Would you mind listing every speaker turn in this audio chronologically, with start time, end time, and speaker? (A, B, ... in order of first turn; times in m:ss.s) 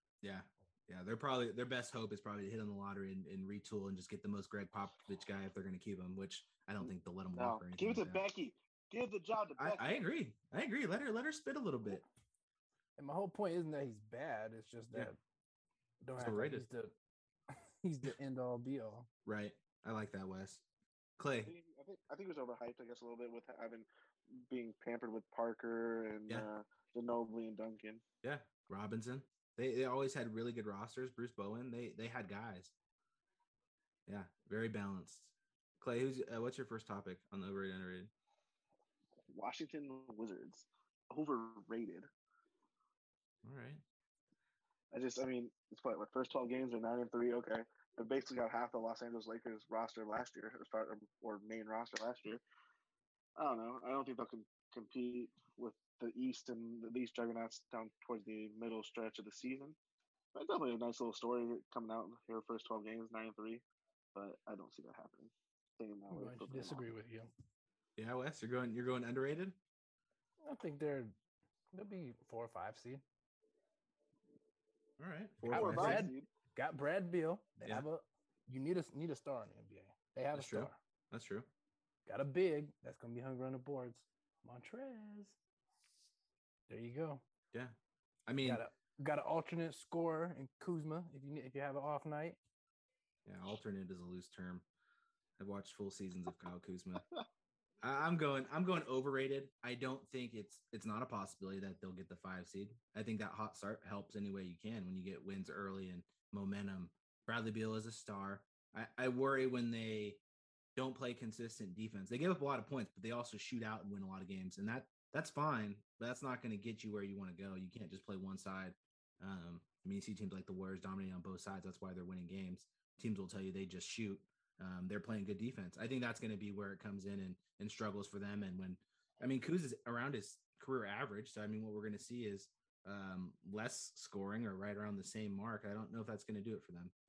0:00.2-0:08.2 A
0:07.3-0:10.0 B
0:09.6-0:12.0 A
0:13.0-0:15.2 C
0:16.0-0:16.9 C
0:16.2-0:16.6 A
0:17.5-0:19.1 C
0:19.2-0:20.6 A
0:21.2-0:21.5 A
0:21.4-0:28.0 B
0:28.2-0:32.7 A
0:34.1-0:38.1 A
0:39.3-0:42.1 B
0:43.4-0:43.8 A
0:44.9-0:52.4 B
0:53.4-0:59.8 B
1:00.3-1:03.6 B
1:04.1-1:06.8 B
1:06.1-1:07.3 C
1:08.0-1:09.6 A
1:10.4-1:11.1 C
1:11.7-1:13.0 C
1:15.0-1:16.1 A
1:15.4-1:16.3 B
1:15.5-1:20.8 C
1:20.3-1:21.5 A
1:22.0-1:25.4 C
1:26.7-1:27.2 C
1:28.3-1:28.6 A
1:28.4-1:32.4 C
1:33.2-1:34.6 A
1:35.4-1:37.0 A
1:37.8-1:50.2 A
1:50.8-2:16.9 A